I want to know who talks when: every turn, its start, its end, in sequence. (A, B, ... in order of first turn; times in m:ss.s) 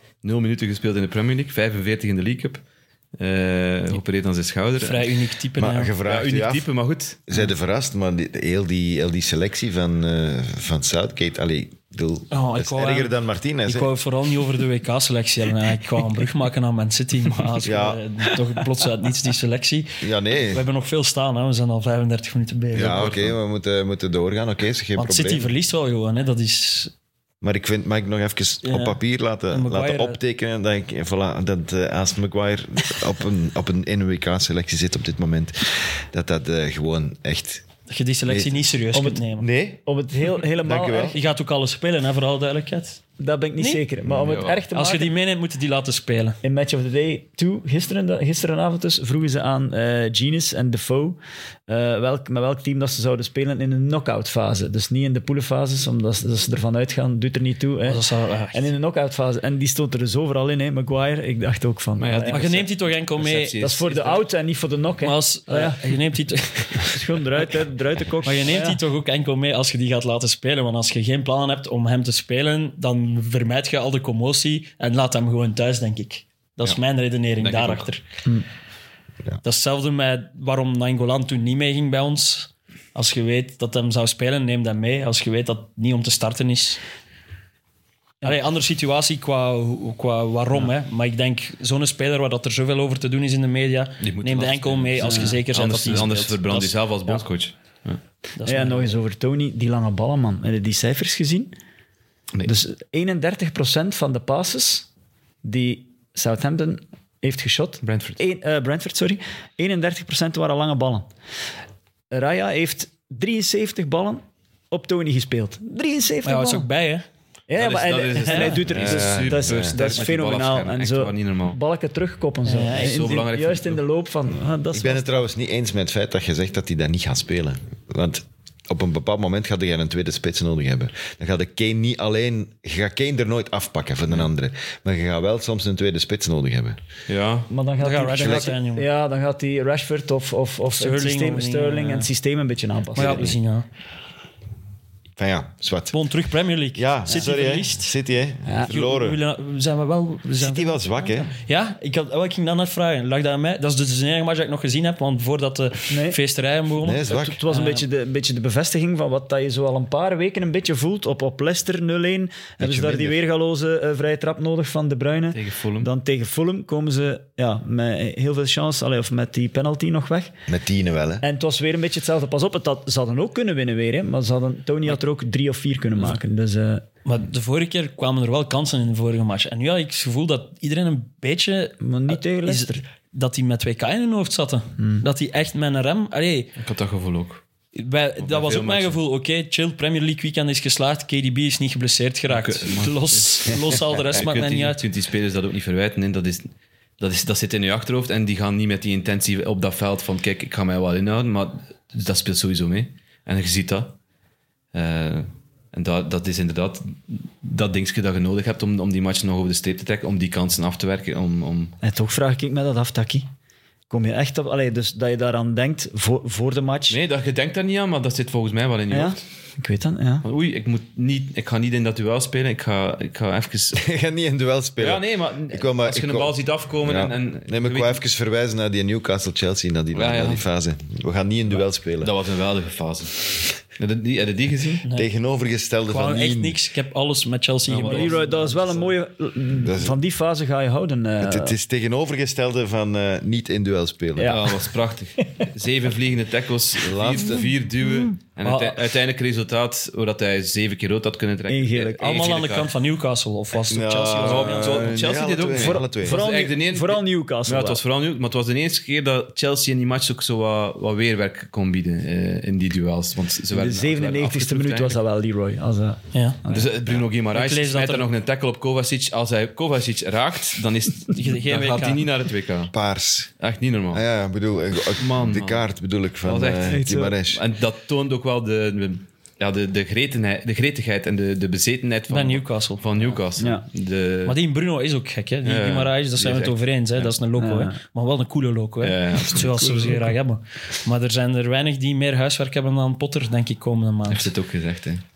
0:00.2-0:02.6 A
0:03.2-0:05.1 A
0:04.8-0:05.9 B
0:05.6-0:06.7 C
0:06.0-0:07.2 A
0:07.3-0:13.9 C
0:12.3-0:13.1 B
0:13.7-0:23.2 B
0:17.6-0:18.0 C
0:20.0-0:20.7 C
0:22.7-0:25.5 C
0:22.8-0:23.4 A
0:25.0-0:26.9 B
0:27.4-0:37.6 C
0:28.6-0:29.0 B
0:29.5-0:30.2 B
0:37.9-0:39.5 B
0:38.3-0:38.7 C
0:38.9-0:39.2 D
0:39.4-0:39.8 C
0:39.8-0:41.2 D
0:40.6-0:41.2 C
0:41.1-0:43.0 B
0:43.2-0:45.1 D
0:43.6-0:43.8 B
0:44.1-0:44.4 C
0:44.1-0:44.6 A
0:44.7-0:46.4 B
0:46.4-1:02.4 D
0:57.8-0:58.6 B
1:02.0-1:04.2 A
1:02.3-1:03.6 B
1:03.6-1:05.8 D
1:05.0-1:06.9 B
1:06.7-1:08.8 D
1:08.2-1:18.0 B
1:17.4-1:17.9 A
1:19.4-1:26.8 B
1:28.2-1:36.7 B
1:34.0-1:38.0 A
1:35.0-1:35.4 D
1:38.4-1:38.9 B
1:38.4-1:41.5 D
1:42.4-1:44.9 D
1:45.4-1:51.1 D
1:47.8-1:48.2 A
1:52.1-1:56.7 D
1:56.2-1:57.0 B
1:57.5-2:05.2 D
1:57.6-2:01.6 A
1:58.2-1:58.6 B
1:58.7-1:59.8 C
2:02.4-2:03.0 B
2:02.7-2:03.8 A
2:04.7-2:16.8 C
2:17.1-2:17.5 A
2:17.5-2:23.4 D
2:17.8-2:18.9 B
2:18.2-2:18.5 C
2:20.7-2:22.1 B
2:23.0-2:23.7 B
2:25.2-2:26.0 C
2:25.9-2:27.9 B
2:26.7-2:29.2 C
2:28.5-2:28.7 D
2:28.7-2:37.8 B
2:30.4-2:31.3 C
2:35.9-2:36.2 D
2:36.8-2:37.4 C
2:37.0-2:50.4 D
2:42.6-2:43.2 C
2:45.3-2:45.9 A
2:50.5-2:51.2 C
2:51.2-2:56.8 D
2:57.0-3:06.5 B
3:01.8-3:02.8 D
3:04.8-3:05.0 D
3:06.6-3:07.4 A
3:07.8-3:14.8 B
3:08.2-3:09.0 A
3:12.3-3:24.0 A
3:24.7-3:31.8 A
3:31.8-3:33.3 D
3:33.9-3:37.0 D
3:36.9-3:39.2 A
3:38.9-3:40.2 D
3:40.2-3:43.8 A
3:43.8-3:52.1 C
3:44.8-3:48.0 A
3:49.9-3:50.4 A
3:52.0-3:54.8 A
3:54.8-3:55.1 B
3:54.9-3:56.6 C
3:55.9-3:58.3 B
3:57.7-3:58.9 A
3:57.8-4:01.6 D
3:59.5-4:00.0 C
4:01.2-4:04.4 C
4:04.2-4:04.6 D
4:04.2-4:12.7 A
4:06.8-4:07.5 C
4:08.4-4:08.8 B
4:11.5-4:12.2 D
4:12.0-4:15.0 B
4:13.7-4:16.2 C
4:14.2-4:25.0 A
4:15.5-4:17.8 D
4:23.5-4:26.7 D
4:26.1-4:26.4 B
4:26.5-4:32.7 A
4:27.3-4:28.1 B
4:31.1-4:32.0 B
4:32.7-4:33.3 C
4:33.4-4:34.0 A
4:33.9-4:37.4 C
4:34.9-4:35.7 A
4:36.2-4:44.4 A
4:36.7-4:37.2 D
4:42.1-4:42.9 B
4:43.4-4:43.6 D
4:44.2-4:54.3 B
4:45.4-4:47.1 A
4:47.4-4:47.8 D
4:48.8-4:49.7 A
4:49.3-4:50.1 D
4:54.1-4:55.0 A